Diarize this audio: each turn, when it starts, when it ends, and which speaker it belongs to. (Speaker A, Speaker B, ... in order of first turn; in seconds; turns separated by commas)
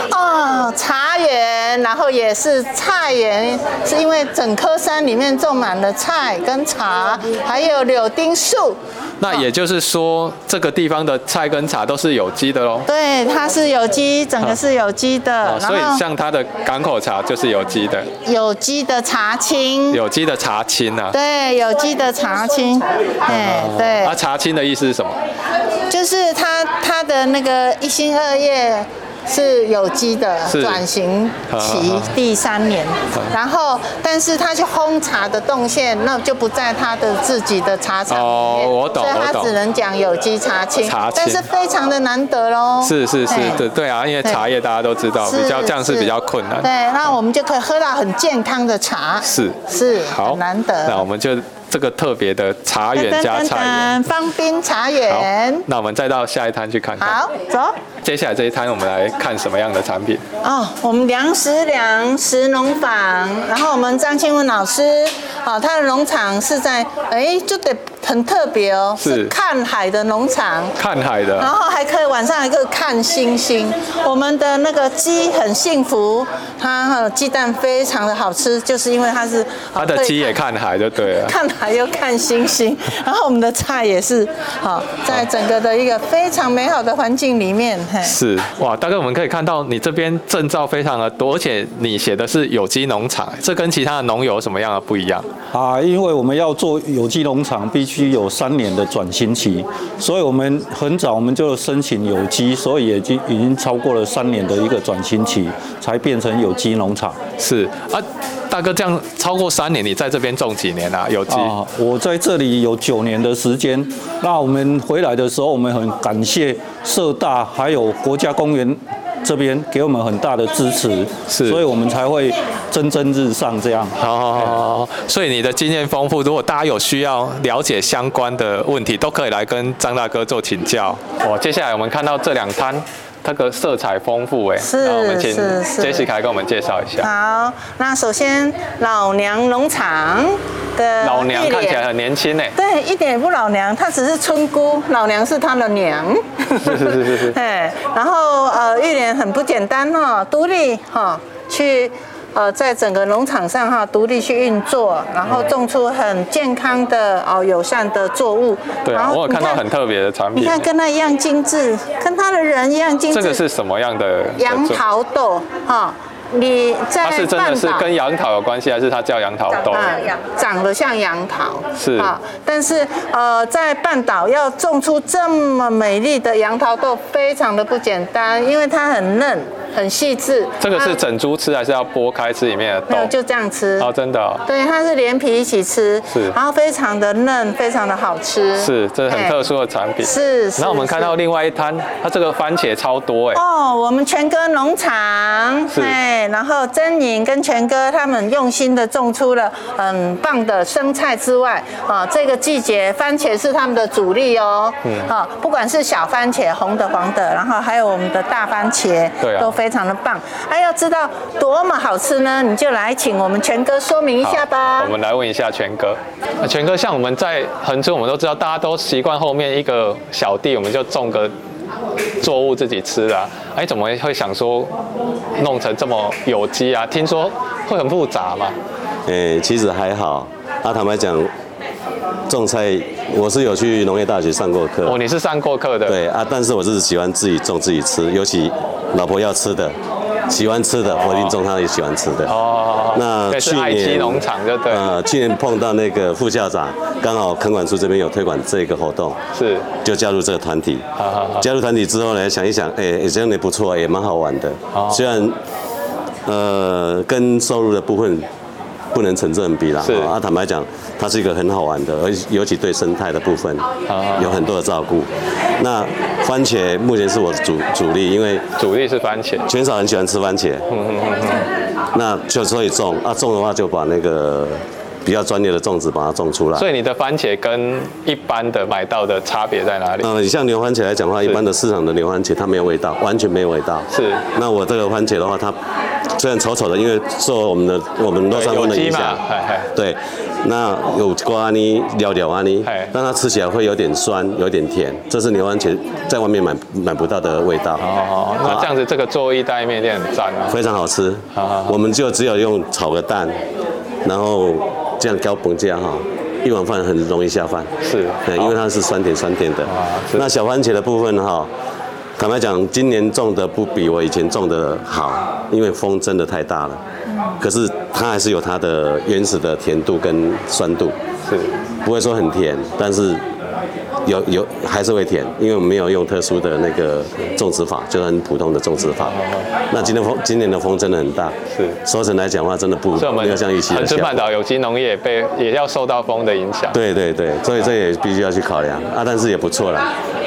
Speaker A: 0.1-9.4, Speaker B: 9.2-12.9, Speaker A: 12.9-16.0, Speaker B: 15.4-18.1, Speaker A: 18.2-20.0, Speaker B: 19.9-21.1, Speaker A: 21.1-24.1, Speaker B: 23.3-25.2, Speaker A: 25.9-43.6, Speaker B: 30.5-30.8, Speaker B: 31.5-32.1, Speaker B: 38.1-39.5, Speaker B: 40.8-41.4, Speaker B: 42.8-46.7, Speaker A: 45.2-51.0, Speaker B: 49.2-54.0, Speaker A: 52.9-55.6, Speaker B: 55.1-57.2, Speaker A: 57.0-57.8, Speaker B: 58.0-60.2, Speaker A: 60.4-70.7, Speaker B: 69.0-69.3, Speaker B: 70.8-71.5, Speaker A: 71.4-80.3, Speaker B: 79.8-81.3, Speaker A: 81.2-88.1, Speaker B: 88.0-95.2, Speaker C: 95.5-107.2, Speaker B: 107.4-111.5, Speaker C: 111.3-124.6, Speaker B: 121.3-121.6, Speaker B: 124.0-137.1, Speaker A: 134.6-136.1, Speaker A: 137.0-141.8, Speaker B: 141.0-142.5, Speaker A: 142.6-159.6, Speaker B: 146.6-147.3, Speaker B: 158.8-160.7, Speaker A: 160.3-163.4, Speaker B: 163.1-164.8, Speaker A: 164.4-167.8, Speaker B: 167.0-170.0, Speaker A: 169.7-181.0, Speaker B: 171.8-172.1, Speaker B: 180.6-183.1, Speaker A: 182.9-183.9, Speaker B: 183.8-184.4, Speaker A: 184.5-189.3, Speaker B: 186.1-186.4, Speaker B: 188.6-193.4, Speaker A: 190.0-191.1, Speaker A: 193.3-214.9, Speaker B: 204.8-205.1, Speaker B: 209.2-209.5, Speaker B: 214.2-221.3, Speaker B: 222.2-224.7, Speaker B: 225.4-228.6, Speaker D: 229.1-231.3, Speaker D: 232.3-235.0, Speaker B: 234.8-236.0, Speaker D: 235.8-239.8, Speaker D: 240.3-242.3, Speaker B: 241.0-241.3, Speaker B: 242.3-244.9, Speaker D: 242.9-249.2, Speaker B: 249.3-249.7, Speaker D: 249.8-250.8, Speaker B: 251.0-251.4, Speaker D: 251.4-255.4, Speaker B: 254.7-255.1, Speaker D: 256.2-258.3, Speaker D: 258.9-268.4, Speaker B: 259.8-260.1, Speaker B: 263.9-264.4, Speaker B: 268.6-269.5, Speaker D: 269.5-270.6, Speaker B: 270.7-271.4, Speaker D: 271.9-276.7, Speaker B: 276.6-280.1, Speaker D: 280.0-285.6, Speaker B: 283.9-284.2, Speaker D: 286.1-289.2, Speaker B: 288.3-289.7, Speaker D: 289.7-297.8, Speaker B: 292.6-292.9, Speaker B: 297.8-300.6, Speaker D: 298.4-298.7, Speaker D: 300.5-303.4, Speaker B: 301.3-301.7, Speaker D: 304.0-307.7, Speaker B: 307.8-308.5, Speaker D: 308.2-311.5, Speaker B: 309.7-310.3, Speaker D: 312.2-316.8, Speaker D: 317.4-320.9, Speaker B: 321.2-321.5, Speaker D: 321.8-323.2, Speaker D: 324.0-329.2, Speaker B: 329.1-329.5, Speaker D: 329.7-334.3, Speaker B: 331.5-331.8, Speaker B: 333.0-336.8, Speaker D: 336.7-339.9